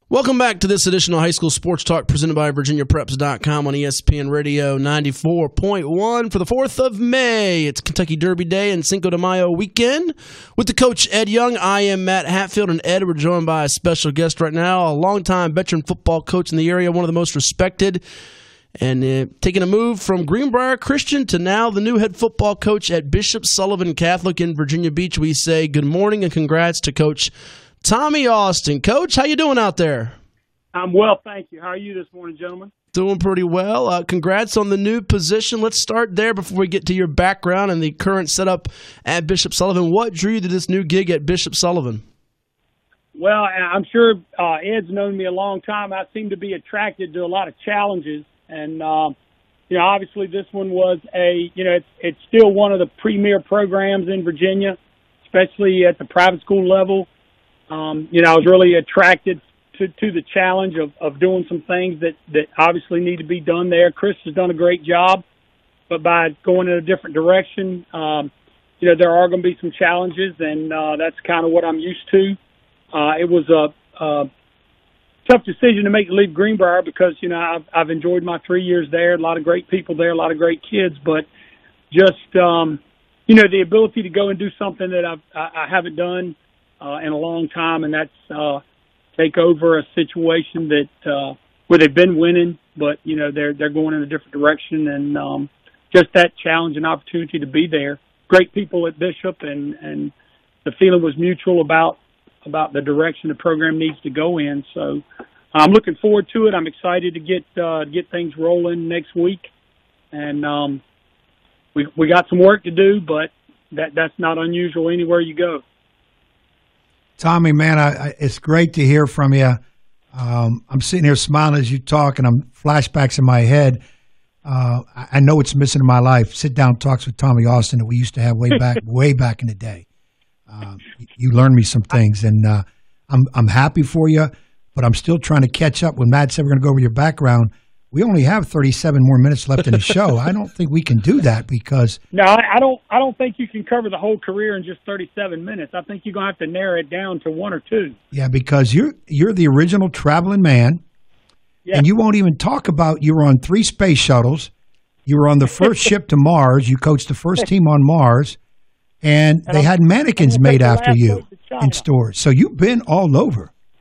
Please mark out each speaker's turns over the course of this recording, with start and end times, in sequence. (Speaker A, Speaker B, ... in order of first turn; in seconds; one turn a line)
Speaker A: 0.1-18.0
Speaker A: 18.8-27.3
Speaker A: 27.8-30.1
Speaker B: 30.7-32.7
Speaker A: 32.9-42.0
Speaker B: 43.1-49.2
Speaker B: 49.7-57.1
Speaker B: 57.7-65.2
Speaker B: 65.9-72.4
Speaker B: 72.9-74.3
Speaker B: 75.2-81.3
Speaker B: 81.9-88.6
Speaker B: 89.2-100.1
Speaker B: 100.6-109.5
Speaker B: 110.1-110.8
Speaker B: 111.8-115.6
Speaker C: 117.2-119.6
Speaker C: 120.1-123.8
Speaker C: 124.5-129.8
Speaker C: 130.5-142.0
Speaker B: 142.1-148.0
Speaker C: 148.1-150.8
Speaker C: 151.7-154.5
Speaker C: 155.1-158.4
Speaker C: 159.0-163.5
Speaker B: 159.5-161.8